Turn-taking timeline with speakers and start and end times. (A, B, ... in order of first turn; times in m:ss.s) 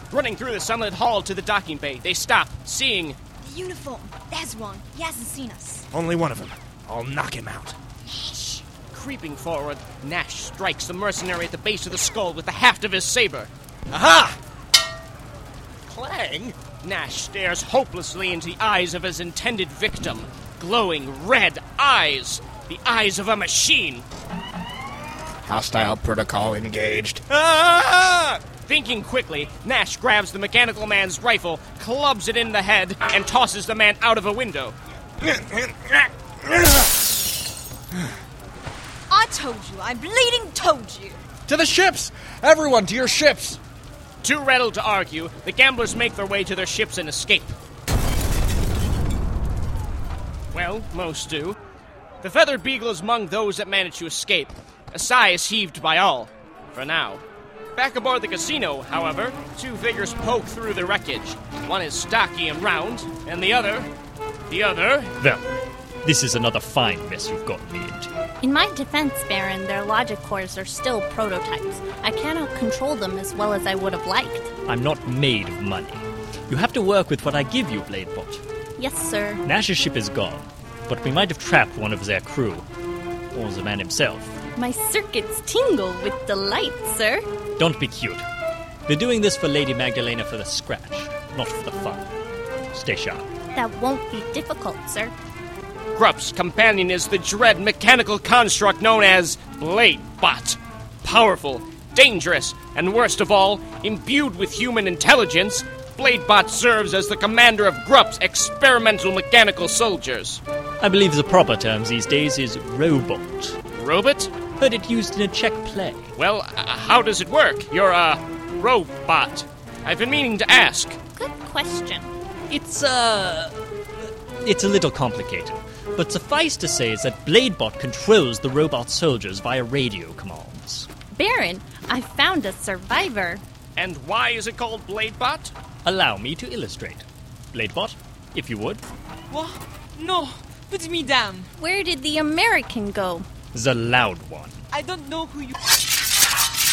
0:00.1-0:03.2 A
0:03.4-0:05.9 B
0:05.9-0:07.8 C
0:08.0-0:08.6 B
0:08.9-0:13.5 A
0:13.9-0:14.4 C
0:15.9-0:16.6 C
0:16.8-0:24.0 A
0:25.4-0:28.4 C
0:28.6-0:34.8 A
0:35.2-0:37.0 C
0:39.1-0:41.2 B
0:41.4-0:43.6 C
0:44.2-0:47.6 A
0:50.5-0:51.6 A
0:52.2-0:57.2 A
0:57.7-1:03.9 A
1:04.5-1:05.1 A
1:05.2-1:05.5 D
1:06.0-1:08.1 D
1:08.4-1:14.5 E
1:14.6-1:18.4 D
1:18.8-1:19.4 E
1:19.4-1:22.6 D
1:23.3-1:24.4 D
1:24.5-1:27.2 E
1:27.6-1:28.2 D
1:28.9-1:32.1 D
1:32.7-1:33.3 D
1:33.5-1:35.1 E
1:35.9-1:50.4 A
1:50.8-1:53.6 D
1:53.7-1:54.3 A
1:54.6-1:56.1 D
1:56.2-2:01.0 A
2:01.2-2:02.1 E
2:02.5-2:03.5 D
2:04.4-2:10.9 D
2:11.1-2:13.4 E
2:13.8-2:15.5 A
2:15.8-2:18.8 D
2:19.3-2:21.5 F
2:21.6-2:23.2 E
2:23.5-2:24.6 D
2:24.7-2:25.5 F